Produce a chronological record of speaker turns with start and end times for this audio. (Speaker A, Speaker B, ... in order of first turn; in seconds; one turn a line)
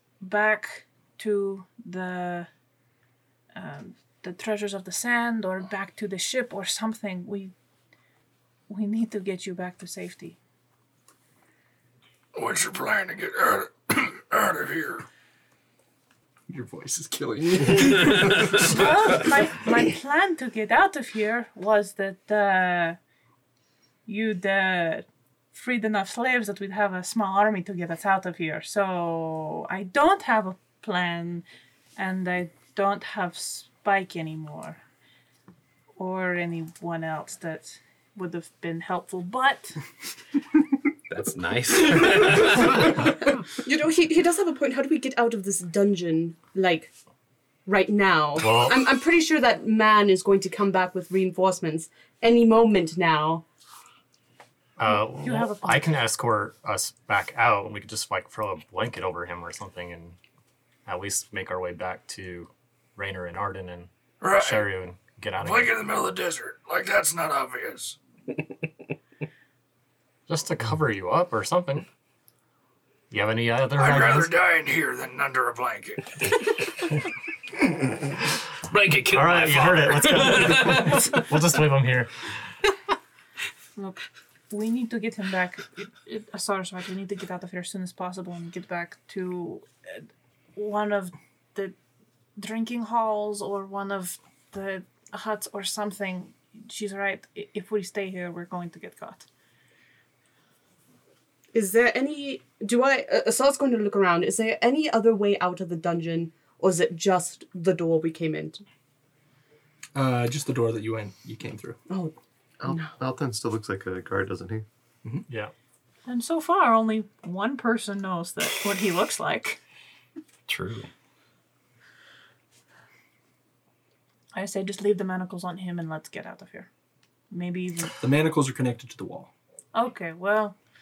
Speaker A: 0.2-2.5
Speaker A: 3.5-7.5
Speaker A: 8.7-10.4
Speaker B: 12.3-15.1
Speaker C: 16.5-18.8
Speaker A: 18.6-23.0
Speaker A: 24.1-31.4
Speaker A: 32.0-34.8
Speaker A: 36.0-39.8
Speaker D: 41.1-43.0
Speaker E: 43.6-46.9
Speaker E: 47.7-53.4
Speaker F: 48.4-48.9
Speaker F: 54.8-60.2
Speaker A: 54.8-56.0
Speaker F: 60.9-65.8
Speaker B: 64.2-64.7
Speaker B: 65.4-68.0
Speaker F: 70.3-71.9
Speaker F: 73.1-74.3
Speaker B: 73.8-76.1
Speaker D: 78.7-81.0
Speaker F: 79.1-82.3
Speaker A: 83.8-90.0
Speaker A: 90.6-91.8
Speaker A: 92.4-99.3
Speaker E: 101.5-108.6
Speaker C: 110.0-111.8
Speaker E: 111.9-113.0
Speaker G: 112.6-114.7
Speaker A: 116.1-119.6
Speaker D: 120.5-120.9
Speaker A: 124.3-126.7
Speaker A: 127.3-128.0
Speaker C: 128.0-129.3
Speaker A: 129.7-130.6